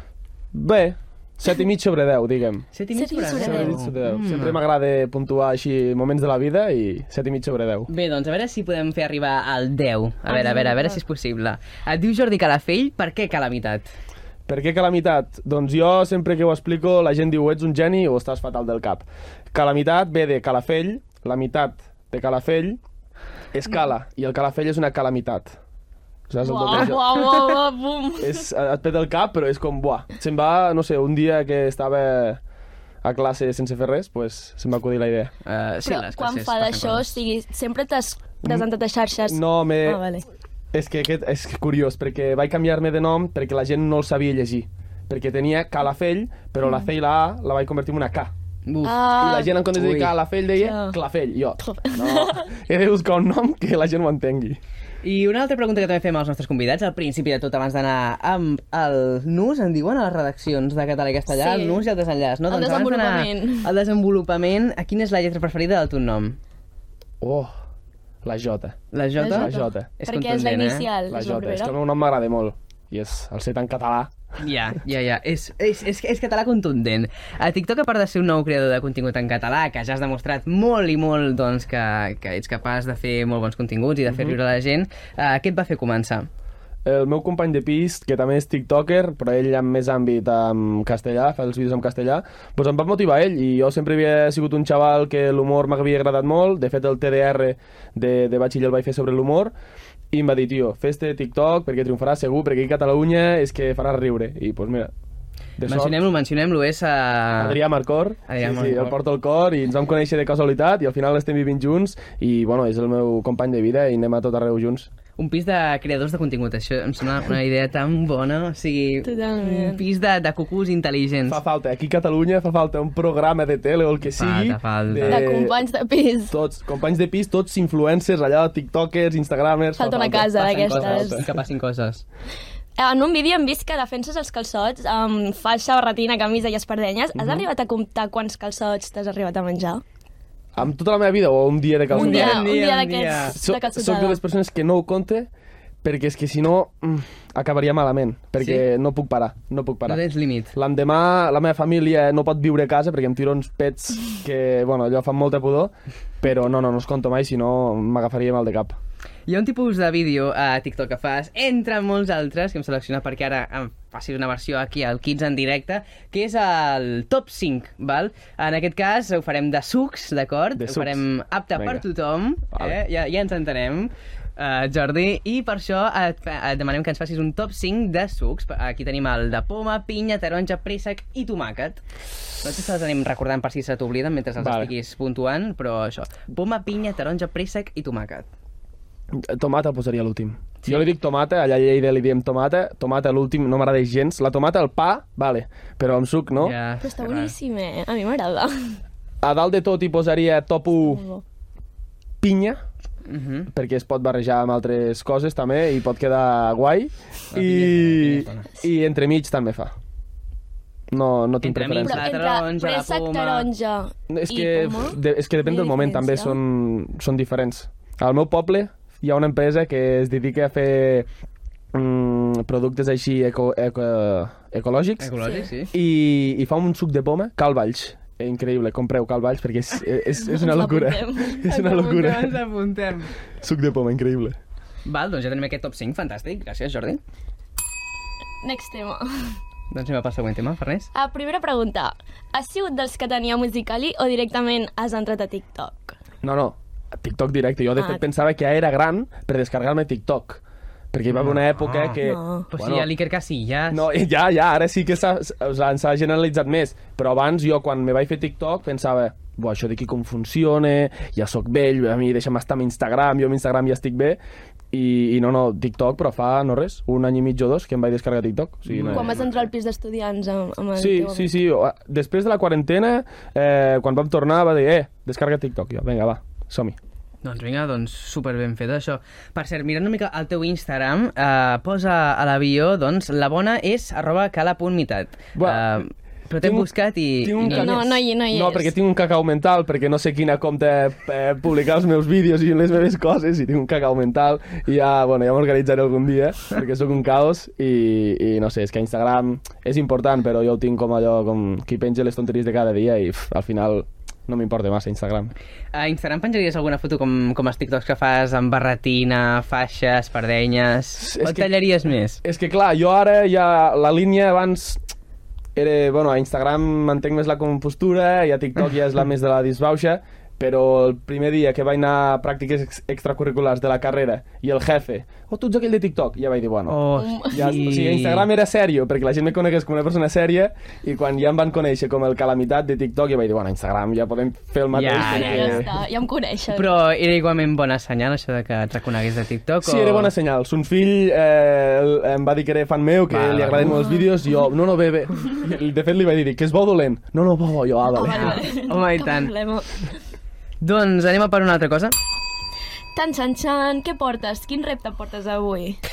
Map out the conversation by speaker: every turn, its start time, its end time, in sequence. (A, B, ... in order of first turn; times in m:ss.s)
0:00.5-0:02.7 A
0:02.7-0:04.6 B
0:03.0-0:03.8 C
0:03.3-0:07.9 A
0:07.9-0:13.9 B
0:10.2-0:11.0 C
0:14.5-0:22.8 A
0:23.5-0:25.6 A
0:26.3-0:27.1 A
0:26.4-0:28.4 C
0:26.7-0:27.5 B
0:28.2-0:32.4 A
0:33.0-0:35.3 A
0:35.4-0:37.2 B
0:35.8-0:40.2 C
0:39.2-0:40.0 A
0:40.7-0:48.3 A
0:46.6-0:46.9 C
0:48.7-0:49.1 B
0:48.8-0:49.6 C
0:49.2-0:54.6 A
0:49.6-0:50.2 B
0:50.5-0:51.0 C
0:51.6-0:52.5 C
0:55.0-1:06.4 B
1:01.3-1:01.9 C
1:02.5-1:03.7 C
1:07.2-1:07.5 A
1:08.2-1:09.9 A
1:08.9-1:10.9 B
1:09.2-1:11.8 C
1:11.1-1:14.1 A
1:14.4-1:26.3 B
1:24.1-1:24.3 A
1:26.8-1:39.5 A
1:40.1-1:44.9 A
1:45.6-1:46.0 A
1:45.6-1:47.6 B
1:47.4-1:54.9 A
1:48.3-1:49.0 B
1:55.2-2:01.4 B
1:59.0-1:59.8 C
2:01.3-2:05.6 A
2:04.1-2:05.2 B
2:05.0-2:06.4 C
2:06.3-2:11.3 A
2:09.8-2:11.3 C
2:10.3-2:12.0 B
2:12.8-2:19.8 C
2:20.5-2:22.5 A
2:21.9-2:24.2 C
2:21.9-2:23.4 B
2:23.3-2:25.3 A
2:25.8-2:30.0 A
2:28.4-2:28.6 B
2:29.9-2:30.5 B
2:30.5-2:38.8 A
2:39.3-3:01.8 B
2:50.6-2:51.8 A
2:52.5-2:52.8 A
3:02.4-3:08.3 B
3:04.4-3:04.7 A
3:09.1-3:16.5 A
3:10.6-3:10.9 B
3:16.4-3:17.3 B
3:16.8-3:18.8 C
3:19.2-3:21.0 A
3:20.8-3:21.2 C
3:22.2-3:22.6 A
3:23.1-3:23.5 B
3:23.5-3:29.7 A
3:27.3-3:28.5 B
3:30.9-3:32.1 A
3:31.4-3:33.5 B
3:31.8-3:36.4 C
3:34.1-3:41.1 A
3:41.7-3:52.4 A
3:45.0-3:45.7 B
3:50.2-3:52.1 C
3:52.0-3:53.1 B
3:53.4-3:54.4 A
3:54.8-3:57.0 B
3:58.4-3:59.3 C
3:59.7-4:00.9 B
4:00.9-4:06.0 C
4:06.2-4:12.9 A
4:07.8-4:08.0 C
4:11.1-4:12.0 B
4:12.0-4:12.5 C
4:12.5-4:13.9 B
4:13.7-4:24.2 A
4:24.7-4:29.2 A
4:28.6-4:29.4 B
4:28.9-4:31.4 C
4:30.8-4:36.8 A
4:37.2-4:47.9 B
4:45.3-4:45.8 A
4:46.4-4:46.7 A
4:47.2-5:05.3 A
4:47.4-4:48.7 C
5:05.7-5:12.2 B
5:11.0-5:11.5 A
5:12.2-5:14.8 A
5:15.6-5:26.8 A
5:26.7-5:28.3 B
5:27.0-5:27.8 C
5:27.3-5:35.7 A
5:34.7-5:35.7 B
5:34.9-5:36.8 C
5:36.5-5:40.1 B
5:39.6-5:48.4 A
5:43.1-5:43.8 B
5:47.9-5:49.9 C
5:48.0-5:49.3 B
5:50.6-5:51.9 B
5:52.9-5:55.8 C